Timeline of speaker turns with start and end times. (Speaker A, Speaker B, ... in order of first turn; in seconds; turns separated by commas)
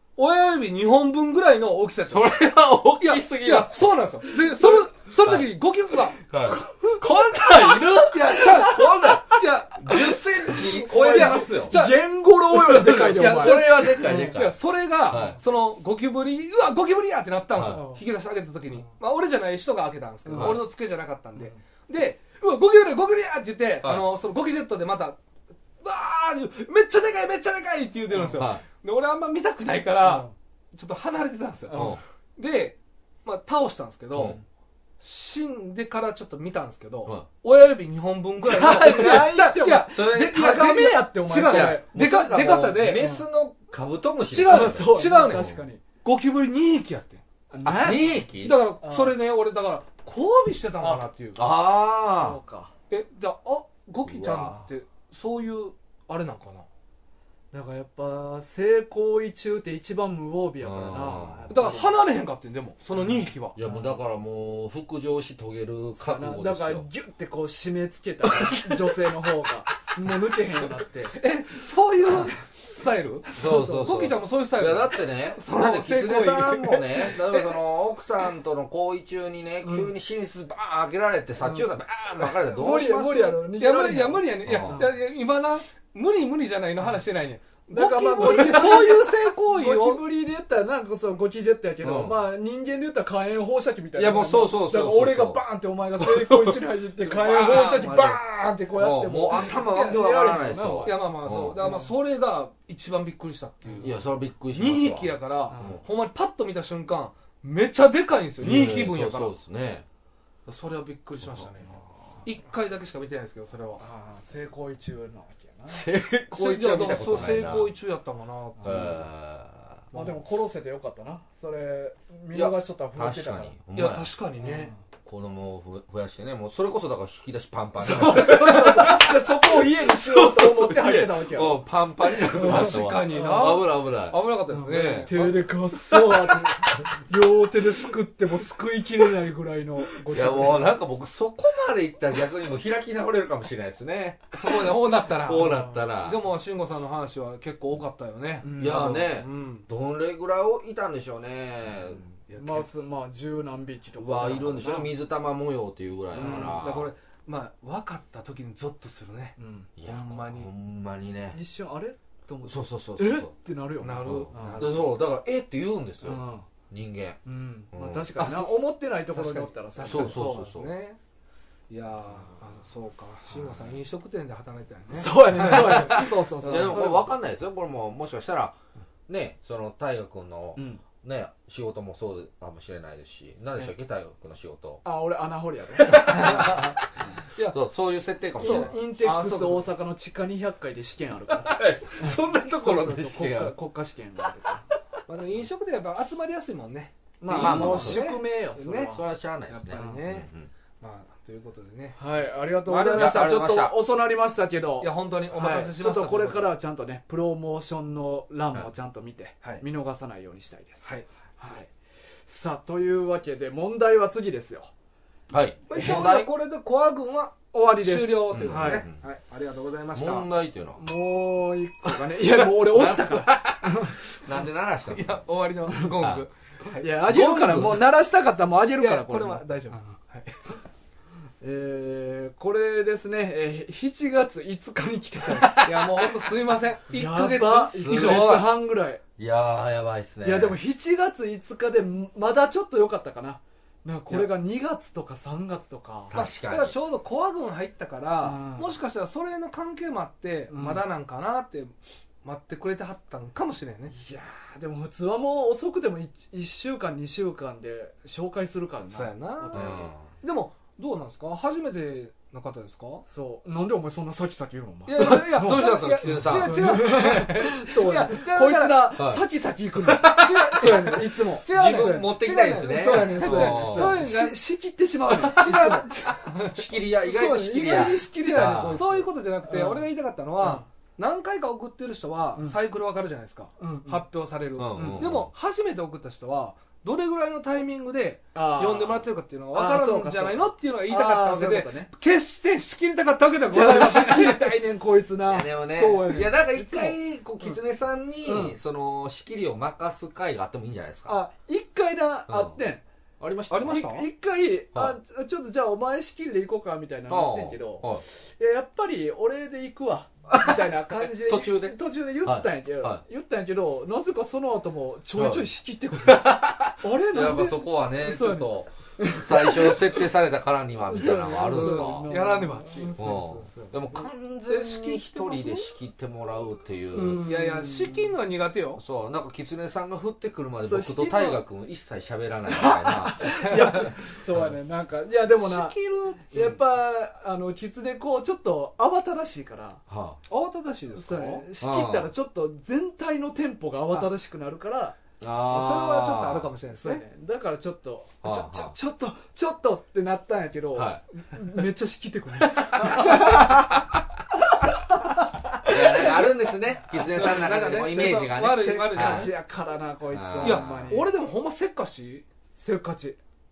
Speaker A: 0.2-2.4, Speaker B: 2.1-5.5, Speaker A: 3.0-6.2, Speaker B: 6.2-11.8, Speaker C: 6.5-7.9, Speaker A: 7.8-25.2, Speaker C: 10.5-14.4, Speaker B: 12.7-15.4, Speaker B: 17.6-17.9, Speaker C: 20.3-20.6, Speaker B: 20.4-20.6, Speaker A: 25.8-34.4, Speaker B: 28.3-28.6, Speaker B: 31.7-32.0, Speaker B: 34.1-34.4, Speaker A: 35.0-43.1, Speaker C: 38.4-41.9, Speaker B: 39.9-45.6, Speaker C: 43.0-43.2, Speaker A: 44.3-47.2, Speaker C: 44.5-45.8, Speaker C: 47.5-48.2, Speaker B: 47.6-48.6, Speaker A: 47.9-51.4, Speaker C: 48.8-49.2, Speaker B: 51.4-52.4, Speaker C: 52.1-52.7, Speaker A: 52.9-56.7, Speaker B: 54.0-54.6, Speaker C: 57.5-62.0, Speaker B: 60.6-61.5, Speaker A: 61.5-63.6, Speaker B: 63.6-66.9, Speaker C: 63.6-64.0, Speaker C: 66.0-71.2, Speaker A: 71.0-77.6, Speaker B: 73.3-83.4, Speaker C: 73.3-74.0, Speaker C: 79.7-79.9, Speaker C: 82.5-84.9, Speaker A: 83.6-90.0, Speaker B: 84.5-84.8, Speaker C: 87.7-101.8, Speaker B: 91.8-92.2, Speaker B: 94.0-95.4, Speaker B: 96.0-101.7, Speaker A: 99.6-100.0, Speaker A: 100.8-104.0, Speaker B: 103.8-105.8, Speaker A: 104.5-109.3, Speaker C: 105.5-105.8, Speaker B: 108.4-109.8, Speaker A: 110.5-113.8, Speaker C: 113.8-115.9, Speaker B: 115.7-117.7, Speaker A: 116.3-119.0, Speaker C: 118.6-119.0, Speaker B: 118.6-119.8, Speaker A: 119.9-120.2, Speaker C: 119.9-123.5, Speaker B: 122.3-124.1, Speaker A: 123.8-124.7, Speaker C: 124.4-124.8, Speaker B: 125.0-135.3, Speaker C: 127.8-133.5, Speaker A: 132.3-135.4, Speaker C: 134.5-140.7, Speaker B: 140.1-146.2, Speaker A: 144.3-149.7, Speaker C: 148.4-149.0, Speaker B: 148.6-152.6, Speaker C: 152.3-154.9, Speaker B: 154.0-156.9, Speaker A: 156.1-159.4, Speaker C: 156.2-156.6, Speaker C: 159.4-159.7, Speaker B: 159.8-161.4, Speaker A: 159.9-160.5, Speaker C: 161.3-164.7, Speaker B: 162.4-163.3, Speaker A: 163.8-164.9, Speaker B: 164.1-167.2, Speaker C: 166.0-166.5, Speaker C: 167.2-170.5, Speaker B: 167.7-168.5, Speaker A: 169.1-171.0, Speaker B: 169.9-170.7, Speaker A: 171.7-176.8, Speaker C: 174.9-177.2, Speaker B: 175.8-178.6, Speaker B: 179.1-184.8, Speaker C: 180.6-180.8, Speaker C: 184.8-186.7, Speaker B: 185.9-186.8, Speaker A: 186.0-186.8, Speaker B: 187.4-188.8, Speaker A: 188.4-189.7, Speaker C: 188.4-194.7, Speaker B: 191.4-193.6, Speaker A: 195.1-198.9, Speaker C: 197.2-199.0, Speaker B: 197.3-198.1, Speaker B: 198.9-200.5, Speaker A: 199.5-200.3, Speaker C: 199.8-200.1, Speaker A: 200.8-202.0, Speaker C: 202.0-211.7, Speaker A: 202.7-203.3, Speaker B: 202.9-203.8, Speaker A: 204.8-206.5, Speaker C: 212.3-214.7, Speaker B: 215.3-216.3, Speaker A: 215.7-220.3, Speaker C: 215.8-216.1, Speaker C: 217.5-218.8, Speaker B: 218.3-219.0, Speaker B: 219.9-220.8, Speaker C: 220.8-224.0, Speaker B: 222.2-225.2, Speaker A: 224.9-227.4, Speaker C: 225.7-226.0, Speaker B: 226.0-226.2, Speaker C: 226.7-229.4, Speaker B: 227.1-227.8, Speaker A: 228.8-230.5, Speaker C: 231.4-236.0, Speaker B: 235.3-235.8, Speaker A: 235.7-238.5, Speaker C: 236.9-239.0, Speaker B: 237.7-238.6, Speaker B: 239.2-240.6, Speaker C: 240.2-246.2, Speaker B: 246.1-246.8, Speaker A: 246.1-253.9, Speaker C: 248.2-248.7, Speaker C: 250.5-250.8, Speaker C: 253.9-259.9, Speaker A: 258.9-263.0, Speaker B: 259.5-260.1, Speaker C: 263.1-275.9, Speaker A: 264.9-268.9, Speaker B: 265.0-266.9, Speaker B: 269.0-269.2, Speaker B: 269.9-270.9, Speaker A: 270.2-274.4, Speaker B: 271.4-274.0, Speaker A: 275.2-276.7, Speaker B: 275.2-278.8, Speaker C: 277.0-279.8, Speaker A: 278.3-294.6, Speaker C: 280.4-280.7, Speaker C: 283.6-284.0, Speaker B: 284.6-285.3, Speaker C: 284.8-285.1, Speaker C: 288.4-291.9, Speaker C: 293.5-297.6, Speaker B: 295.2-301.2, Speaker C: 298.2-298.6, Speaker C: 301.1-302.8, Speaker B: 302.3-302.6, Speaker B: 303.2-304.0, Speaker A: 303.5-304.1, Speaker C: 303.7-319.8, Speaker B: 307.1-308.0, Speaker B: 310.3-313.0, Speaker B: 315.2-322.2, Speaker C: 320.9-325.6, Speaker A: 321.3-323.1, Speaker B: 323.0-327.3, Speaker A: 324.6-325.3, Speaker C: 326.9-328.1, Speaker A: 326.9-328.8, Speaker B: 328.8-334.5, Speaker C: 330.6-331.4, Speaker C: 332.5-339.8, Speaker A: 333.4-333.9, Speaker A: 335.4-336.6, Speaker B: 339.9-340.2, Speaker A: 340.3-341.5, Speaker C: 340.9-345.0, Speaker B: 341.6-342.1, Speaker B: 345.2-346.5, Speaker A: 345.5-347.0, Speaker C: 346.7-353.9, Speaker B: 348.2-348.8, Speaker B: 350.8-351.0, Speaker B: 352.6-353.6, Speaker C: 355.5-356.3, Speaker B: 355.6-359.3, Speaker A: 356.9-359.3, Speaker C: 357.5-361.1, Speaker B: 360.1-361.0, Speaker A: 360.4-362.3, Speaker C: 362.6-363.2